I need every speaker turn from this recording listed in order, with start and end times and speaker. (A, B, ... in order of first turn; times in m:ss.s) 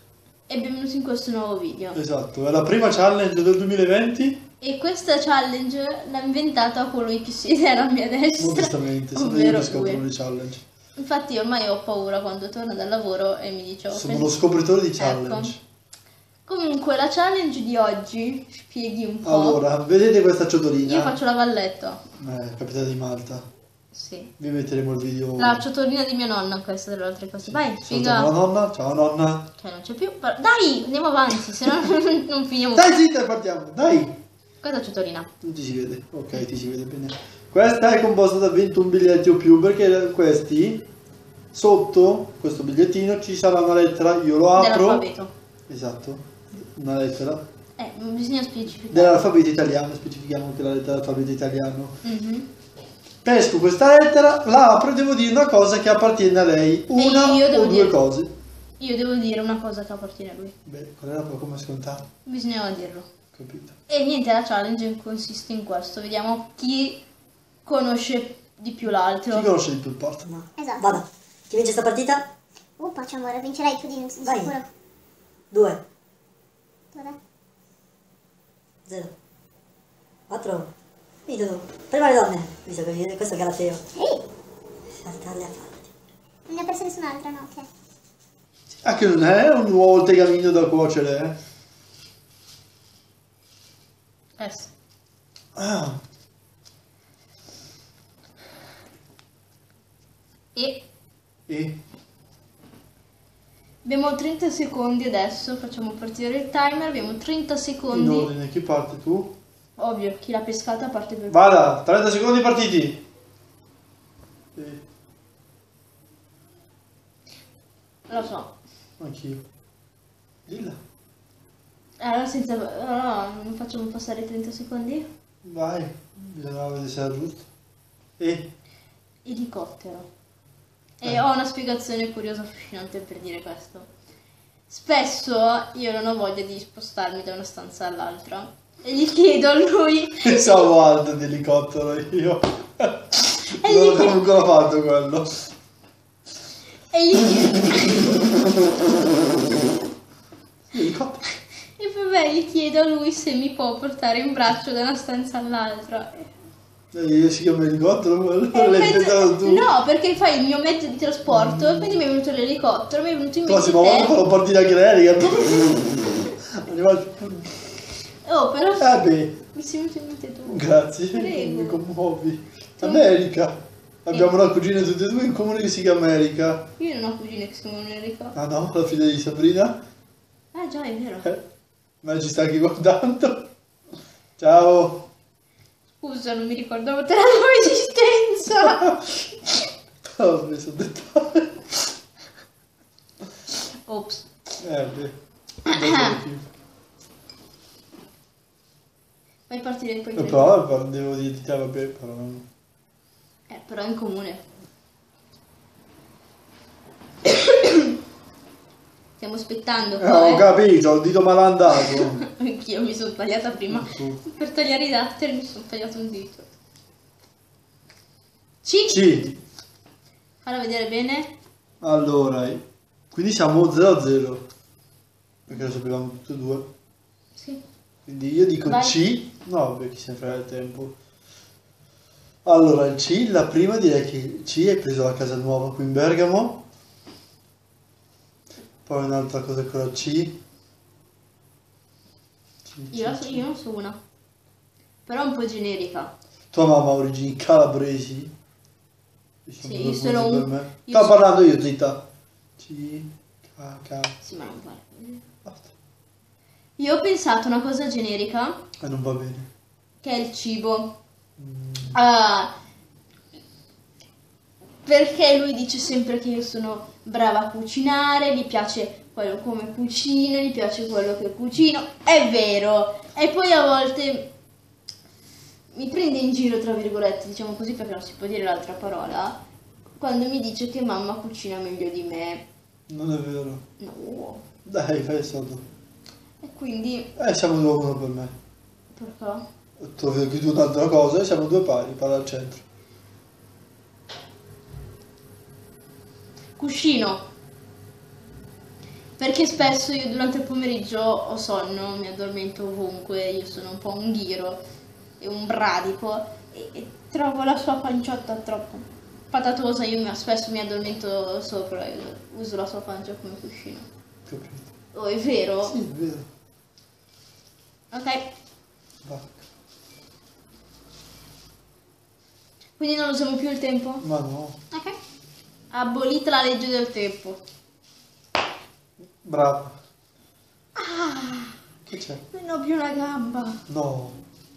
0:00.5-0:02.0 A
0:01.9-0:04.4 B
0:04.6-0:10.0 A
0:08.4-0:10.6 B
0:11.0-0:14.3 A
0:13.9-0:15.6 B
0:15.0-0:15.5 A
0:16.5-0:19.6 A
0:19.2-0:21.2 B
0:20.8-0:22.0 A
0:22.2-0:23.4 B
0:23.9-0:24.3 A
0:24.4-0:25.6 B
0:25.4-0:28.3 A
0:27.4-0:29.5 B
0:29.6-0:32.9 A
0:32.7-0:34.2 B
0:34.6-0:35.3 A
0:35.4-0:40.8 B
0:41.5-0:45.0 B
0:44.5-0:45.3 A
0:45.7-0:47.4 B
0:47.8-0:49.2 A
0:48.9-0:52.0 B
0:52.0-0:52.5 A
0:53.2-0:58.3 B
0:56.9-0:58.0 A
0:58.8-1:00.5 A
1:00.6-1:02.1 B
1:02.2-1:03.1 A
1:03.3-1:03.8 B
1:03.9-1:07.0 A
1:07.6-1:09.5 A
1:09.3-1:10.3 B
1:10.2-1:12.2 C
1:10.6-1:11.0 D
1:12.8-1:14.7 D
1:14.2-1:14.5 C
1:15.5-1:15.8 C
1:18.8-1:19.1 C
1:20.3-1:20.7 C
1:21.3-1:23.8 C
1:23.9-1:24.2 D
1:24.9-1:25.9 C
1:26.5-1:27.7 D
1:28.8-1:31.3 B
1:34.4-1:34.7 A
1:35.6-1:36.0 B
1:40.5-1:40.8 A
1:41.5-1:41.8 B
1:43.8-1:48.3 A
1:47.9-1:49.4 B
1:49.8-1:51.4 A
1:51.3-1:53.0 B
1:54.6-1:54.8 B
1:58.1-1:58.5 A
1:59.0-1:59.4 B
2:00.5-2:00.8 B
2:02.0-2:05.1 A
2:05.4-2:07.5 B
2:08.2-2:08.5 B
2:09.2-2:10.1 A
2:11.0-2:13.9 A
2:14.7-2:20.7 A
2:20.2-2:25.5 B
2:23.5-2:24.2 A
2:26.9-2:28.3 A
2:27.4-2:28.0 B
2:28.8-2:29.3 B
2:30.7-2:31.2 B
2:31.8-2:36.3 A
2:36.9-2:39.7 B
2:38.5-2:44.1 A
2:41.3-2:42.0 B
2:43.4-2:47.7 B
2:48.2-2:48.9 A
2:48.8-2:49.4 B
2:49.5-2:51.8 A
2:50.4-2:56.7 B
2:52.8-2:53.1 A
2:56.8-2:58.3 A
2:58.3-2:59.8 B
3:00.5-3:01.3 A
3:02.0-3:03.5 B
3:04.4-3:05.1 B
3:06.0-3:08.9 A
3:08.6-3:09.2 B
3:10.0-3:11.9 B
3:13.8-3:14.3 A
3:14.6-3:15.1 B
3:15.7-3:16.1 A
3:15.7-3:16.5 B
3:19.5-3:20.5 A
3:20.2-3:22.4 B
3:23.5-3:24.4 A
3:27.2-3:27.9 A
3:29.2-3:30.5 A
3:30.0-3:32.2 B
3:31.8-3:36.5 A
3:33.7-3:34.2 B
3:38.6-3:39.0 A
3:38.9-3:39.4 B
3:40.4-3:41.3 A
3:41.8-3:44.4 B
3:45.5-3:46.6 B
3:47.3-3:47.6 A
3:48.0-3:50.9 B
3:48.6-3:49.0 A
3:52.4-3:56.6 B
3:58.8-4:00.4 B
4:02.6-4:03.5 B
4:02.9-4:04.0 A
4:05.0-4:06.1 A
4:06.5-4:08.3 B
4:09.4-4:12.1 B
4:09.6-4:11.2 A
4:12.6-4:14.2 B
4:14.2-4:15.2 A
4:15.4-4:15.7 B
4:16.8-4:18.6 A
4:18.8-4:19.5 B
4:20.0-4:21.0 A
4:21.4-4:22.0 B
4:21.9-4:22.5 A
4:24.8-4:34.3 A
4:35.7-4:39.4 A
4:40.0-4:42.4 A
4:42.9-4:43.6 B
4:43.8-4:44.4 A
4:44.6-4:45.6 B
4:46.4-4:47.1 A
4:47.2-4:48.3 B
4:48.9-4:49.4 A
4:49.8-4:52.6 B
4:56.6-4:57.2 A
4:59.2-5:04.6 A
5:05.2-5:13.9 A
5:14.3-5:14.7 B
5:14.9-5:15.8 A
5:15.6-5:16.3 B
5:17.9-5:18.3 A
5:19.0-5:19.4 B
5:22.8-5:24.0 A
5:24.0-5:24.6 B
5:25.7-5:27.4 A
5:29.2-5:29.8 B
5:30.8-5:31.6 A
5:31.8-5:32.2 B
5:32.3-5:33.6 A
5:33.7-5:34.2 B